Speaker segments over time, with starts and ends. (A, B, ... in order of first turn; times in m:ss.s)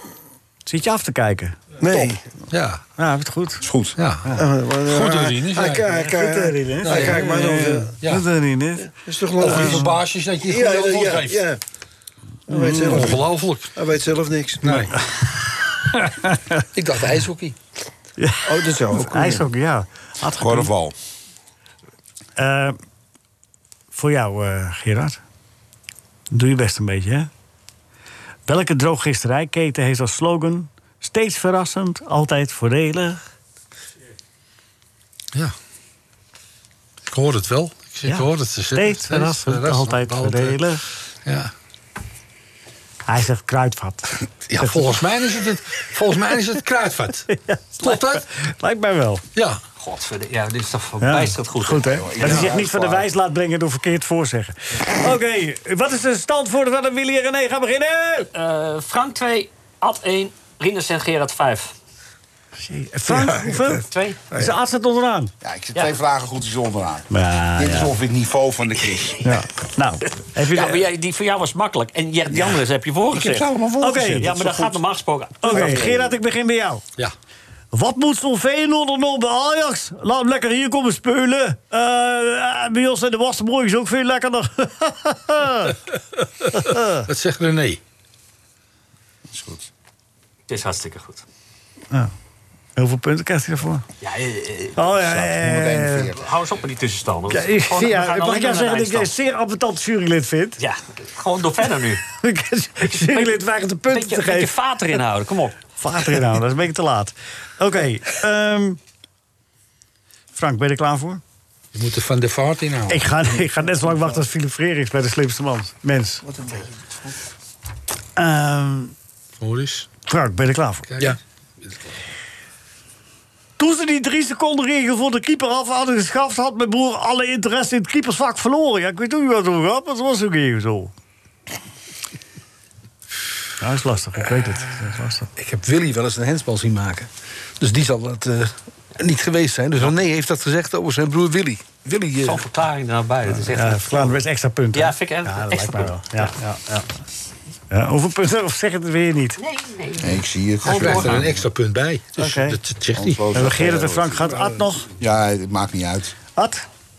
0:00.7-0:02.1 A
0:01.8-0:02.2 B
0:02.5-0:02.8 C
0:03.0-0:03.7 A
0:03.6-0:04.0 D
0:04.0-0:06.0 C
0:04.4-0:08.0 B
0:06.0-0:08.9 A
0:06.8-0:07.3 C
0:09.0-0:11.6 B
0:09.4-0:11.4 C
0:09.4-0:09.9 A
0:12.5-0:13.1 A
0:12.5-0:14.9 B
0:12.8-0:13.7 C
0:14.6-0:15.0 C
0:15.9-0:16.6 A
0:16.8-0:17.6 E
0:18.2-0:20.7 A
0:18.4-0:19.5 B
0:20.4-0:21.0 D
0:22.4-0:22.8 A
0:23.9-0:25.2 A
0:26.3-0:27.3 A
0:28.5-0:33.2 A
0:37.1-0:40.6 C
0:38.0-0:40.9 A
0:41.2-0:41.5 C
0:43.1-0:44.9 A
0:44.5-0:47.3 C
0:47.3-0:49.2 A
0:47.8-0:48.2 C
0:49.8-0:52.0 F
0:51.0-0:58.3 A
0:51.8-0:53.1 D
0:58.4-1:01.7 F
1:02.6-1:05.3 A
1:03.1-1:04.5 B
1:03.9-1:04.2 F
1:05.4-1:09.4 D
1:07.1-1:07.9 A
1:09.2-1:10.8 A
1:10.4-1:13.5 F
1:12.3-1:14.7 D
1:13.8-1:14.4 A
1:14.2-1:16.1 F
1:15.4-1:16.8 A
1:17.7-1:25.8 A
1:26.4-1:27.8 C
1:26.5-1:27.1 A
1:29.3-1:29.7 D
1:30.5-1:31.2 F
1:32.8-1:33.8 A
1:34.0-1:34.9 F
1:34.8-1:36.1 A
1:34.9-1:36.3 D
1:36.1-1:39.1 F
1:37.3-1:40.6 A
1:40.6-1:42.0 F
1:42.1-1:44.5 A
1:42.9-1:43.4 F
1:43.9-1:45.6 F
1:45.8-1:48.8 A
1:50.3-1:51.2 A
1:51.7-1:53.1 C
1:52.9-1:56.3 A
1:58.2-1:58.9 A
1:59.4-1:59.9 C
2:00.1-2:00.9 A
2:00.9-2:01.2 C
2:03.6-2:10.9 A
2:13.6-2:15.3 A
2:15.4-2:22.5 E
2:22.2-2:24.2 F
2:23.3-2:26.9 A
2:24.7-2:26.3 F
2:27.7-2:29.4 A
2:29.4-2:31.4 F
2:30.0-2:31.3 D
2:30.6-2:33.2 C
2:32.2-2:32.6 A
2:33.0-2:34.4 D
2:33.3-2:34.9 A
2:35.0-2:36.2 D
2:36.4-2:36.6 A